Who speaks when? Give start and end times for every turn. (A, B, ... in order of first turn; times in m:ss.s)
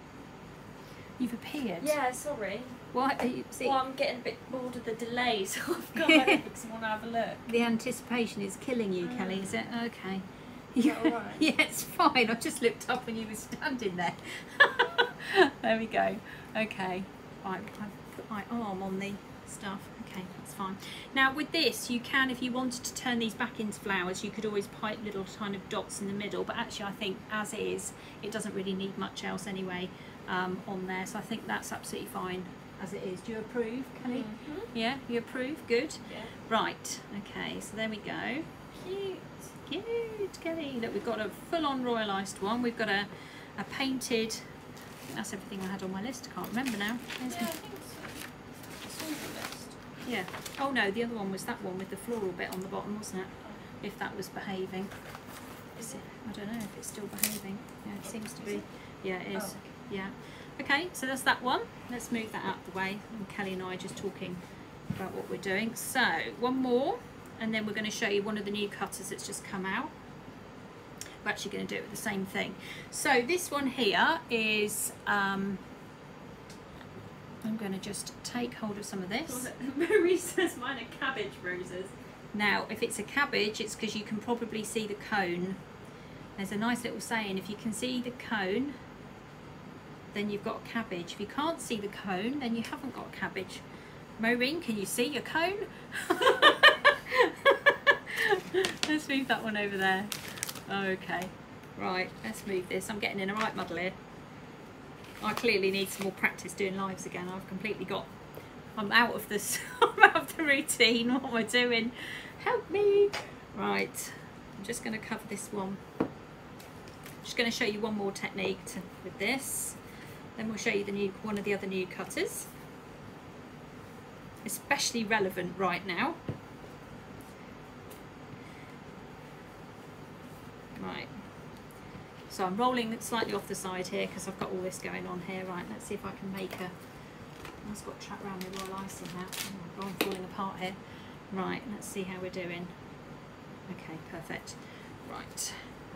0:01.2-0:01.9 A
0:01.8-0:02.8 B
0:02.9-0:03.8 A
0:03.6-0:07.5 B
0:06.0-0:06.4 A
0:07.5-0:38.7 A
0:09.0-0:09.5 B
0:10.8-0:11.4 B
0:34.1-0:34.7 B
0:38.8-0:39.2 B
0:39.6-0:44.4 A
0:45.1-0:47.5 A
0:47.2-0:48.3 B
0:48.8-0:49.8 B
0:50.0-0:54.9 A
0:55.8-1:04.4 A
1:04.9-1:09.9 A
1:11.2-1:15.6 A
1:17.4-1:19.5 A
1:19.2-1:21.9 B
1:22.3-1:25.6 A
1:26.4-1:28.7 A
1:30.1-1:33.6 A
1:34.2-1:44.0 A
1:45.2-1:48.1 A
1:48.8-1:55.8 A
1:57.2-1:59.8 A
2:00.4-2:02.5 A
2:04.4-2:06.2 A
2:10.8-2:11.1 A
2:12.3-2:16.7 A
2:17.6-2:20.8 A
2:21.3-2:22.7 A
2:23.7-2:25.6 A